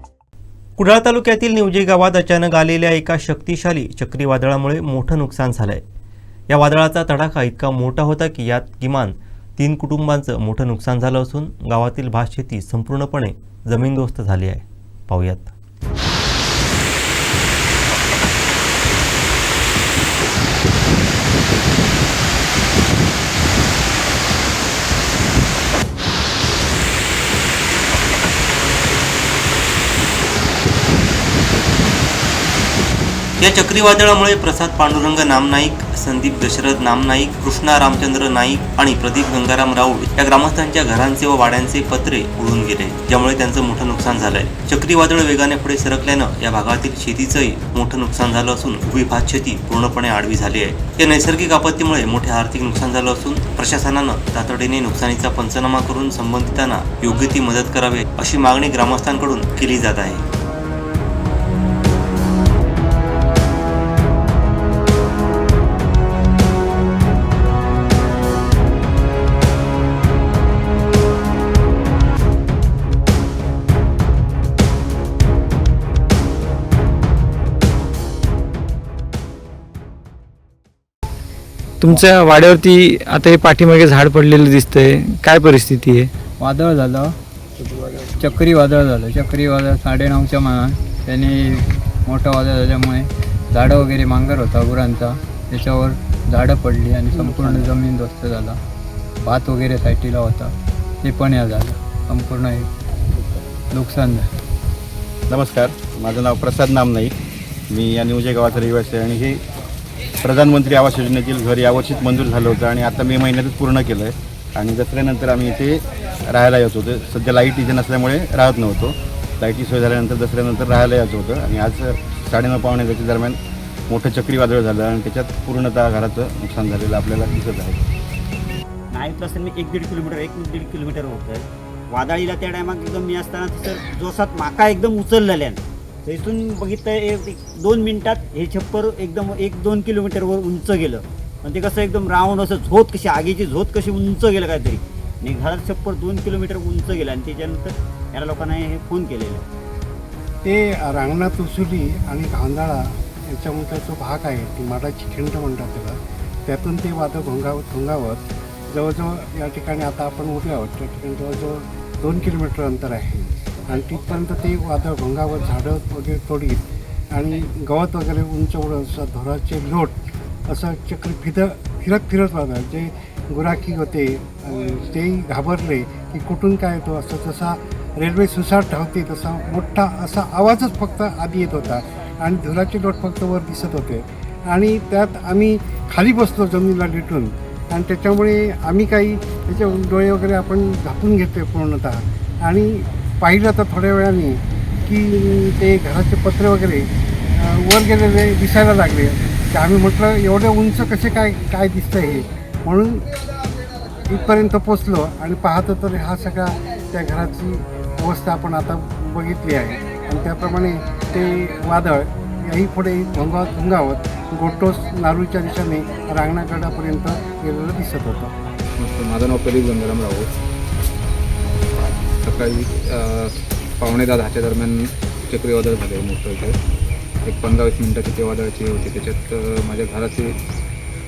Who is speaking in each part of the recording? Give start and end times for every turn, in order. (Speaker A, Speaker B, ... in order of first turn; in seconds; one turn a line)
Speaker A: 0.8-5.8
Speaker A: 6.5-15.5
Speaker A: 33.4-60.2
Speaker B: 81.8-86.1
Speaker C: 86.4-87.1
Speaker C: 88.2-98.6
Speaker C: 99.2-102.7
Speaker C: 103.7-104.3
Speaker D: 105.3-107.0
Speaker E: 105.4-107.1
Speaker D: 107.7-109.3
Speaker E: 108.3-109.4
Speaker D: 110.2-112.8
Speaker E: 110.8-114.1
Speaker D: 113.6-114.0
Speaker E: 114.7-115.8
Speaker E: 116.3-123.4
Speaker E: 123.9-127.8
Speaker D: 127.3-127.6
Speaker D: 128.9-149.4
Speaker F: 150.4-169.9
Speaker F: 170.5-203.1
Speaker F: 204.1-218.3
Speaker G: 218.8-220.3
Speaker G: 222.3-224.7
Speaker G: 225.3-226.5
Speaker G: 227.2-230.3